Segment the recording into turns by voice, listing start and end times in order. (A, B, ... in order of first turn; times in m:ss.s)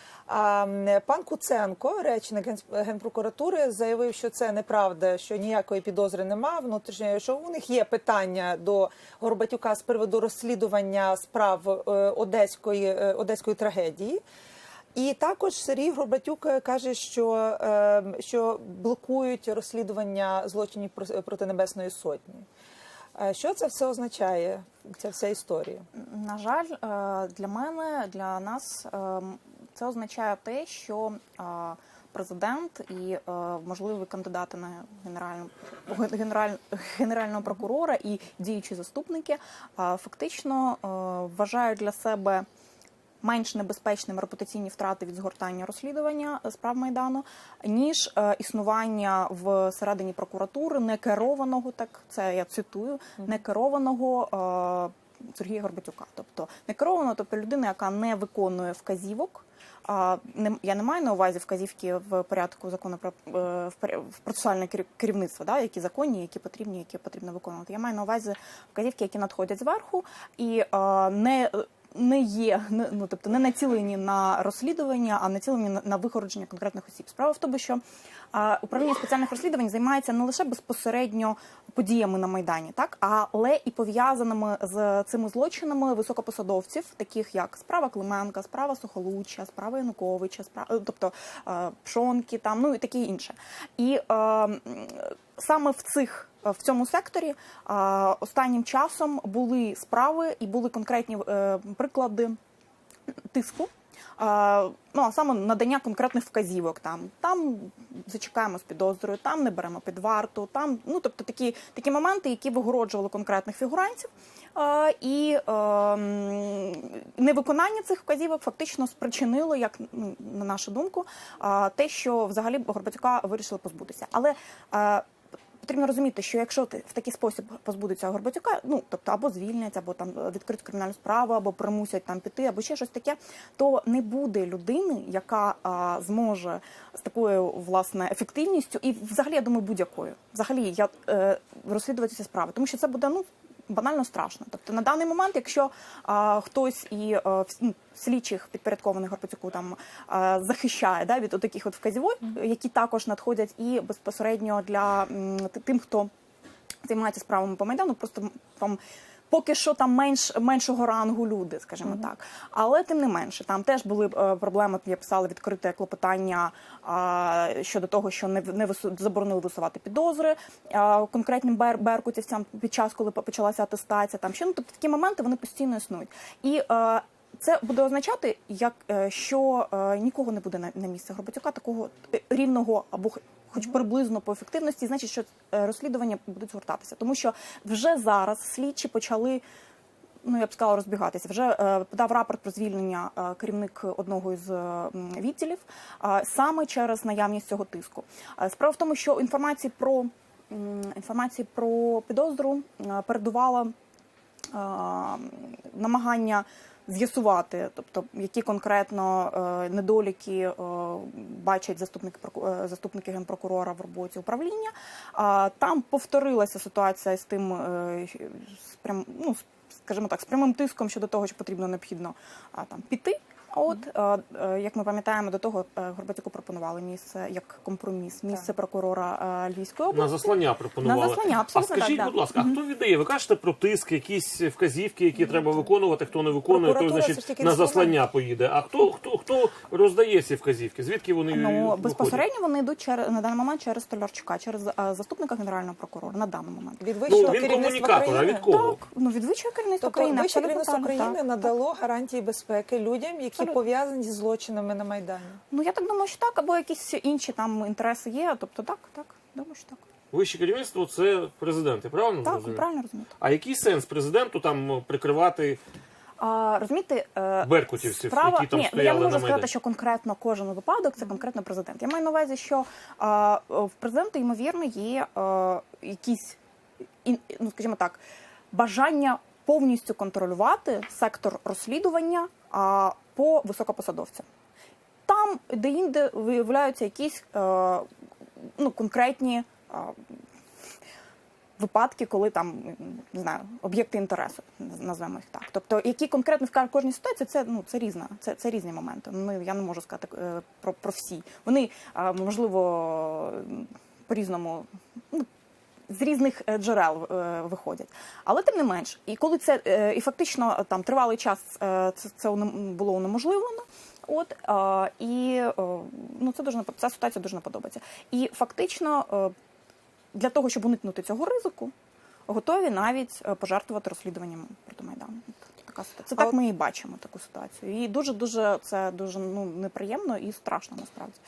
0:00.3-0:14.2 A
0:15.0-0:22.5 A
0:23.2-0:25.8 A
0:26.0-0:42.4 B
0:43.2-1:17.8 B
1:18.3-1:42.4 B
1:43.3-2:05.0 B
2:05.6-2:36.1 B
2:36.8-3:09.4 B
3:10.2-3:23.7 B
3:24.5-3:52.6 B
3:49.9-4:02.2 C
3:56.5-3:58.0 A
4:01.3-4:11.5 B
4:06.8-4:08.5 A
4:07.1-4:08.8 C
4:09.8-4:15.4 A
4:15.5-4:19.8 B
4:20.1-4:22.6 C
4:22.2-4:23.1 B
4:23.2-4:25.6 C
4:26.2-4:36.4 B
4:27.4-4:29.5 C
4:37.0-4:44.2 B
4:45.1-4:47.9 B
4:48.4-4:50.2 B
4:51.6-5:05.3 B
5:05.9-5:19.3 B
5:20.1-5:21.7 B
5:22.3-5:31.2 B